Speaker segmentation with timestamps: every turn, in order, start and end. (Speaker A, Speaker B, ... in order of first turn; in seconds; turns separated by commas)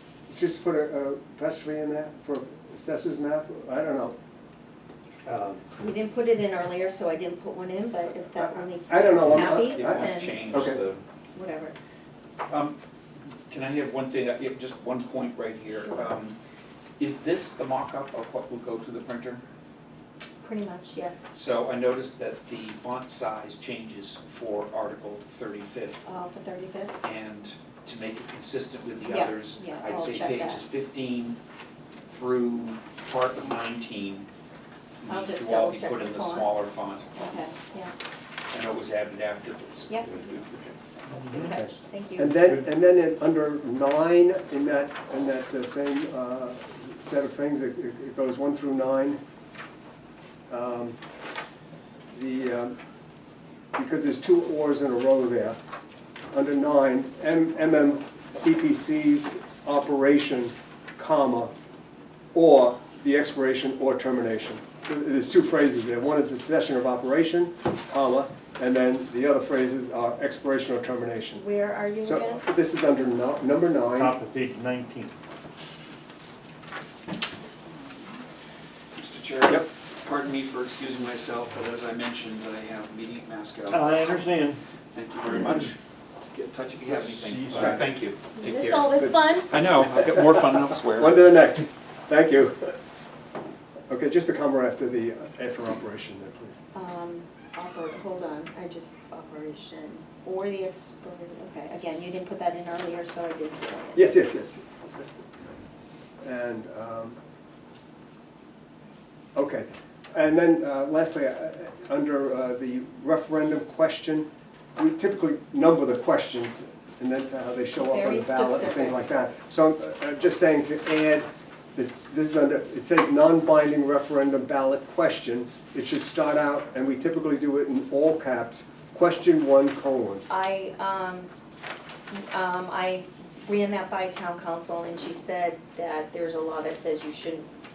Speaker A: 0.3-4.2, Speaker B: 5.2-5.7, Speaker C: 5.8-10.4, Speaker A: 8.3-10.8, Speaker D: 9.4-11.0, Speaker C: 11.3-11.8, Speaker D: 12.5-12.8, Speaker D: 13.5-16.4, Speaker C: 15.7-16.1, Speaker D: 17.0-19.4, Speaker C: 20.4-21.3, Speaker D: 21.3-26.0, Speaker C: 26.0-27.0, Speaker D: 27.0-31.4, Speaker C: 29.1-30.6, Speaker D: 32.0-34.3, Speaker D: 35.0-37.1, Speaker C: 35.1-36.5, Speaker C: 37.1-37.9, Speaker D: 38.5-40.7, Speaker C: 41.1-42.3, Speaker B: 41.1-41.5, Speaker A: 41.5-49.2, Speaker A: 50.5-51.0, Speaker A: 52.1-52.7, Speaker A: 53.7-55.6, Speaker A: 56.3-61.5, Speaker A: 62.3-71.4, Speaker C: 71.3-72.4, Speaker A: 72.0-74.2, Speaker B: 74.0-75.1, Speaker D: 78.9-84.0, Speaker B: 83.7-84.6, Speaker D: 84.9-85.8, Speaker D: 86.3-91.2, Speaker B: 86.9-87.8, Speaker C: 88.3-89.5, Speaker A: 90.9-92.8, Speaker A: 93.9-96.6, Speaker C: 96.7-104.0, Speaker A: 103.9-105.0, Speaker A: 106.2-107.2, Speaker A: 109.3-130.2, Speaker C: 117.8-119.0, Speaker C: 130.3-131.3, Speaker C: 132.1-137.4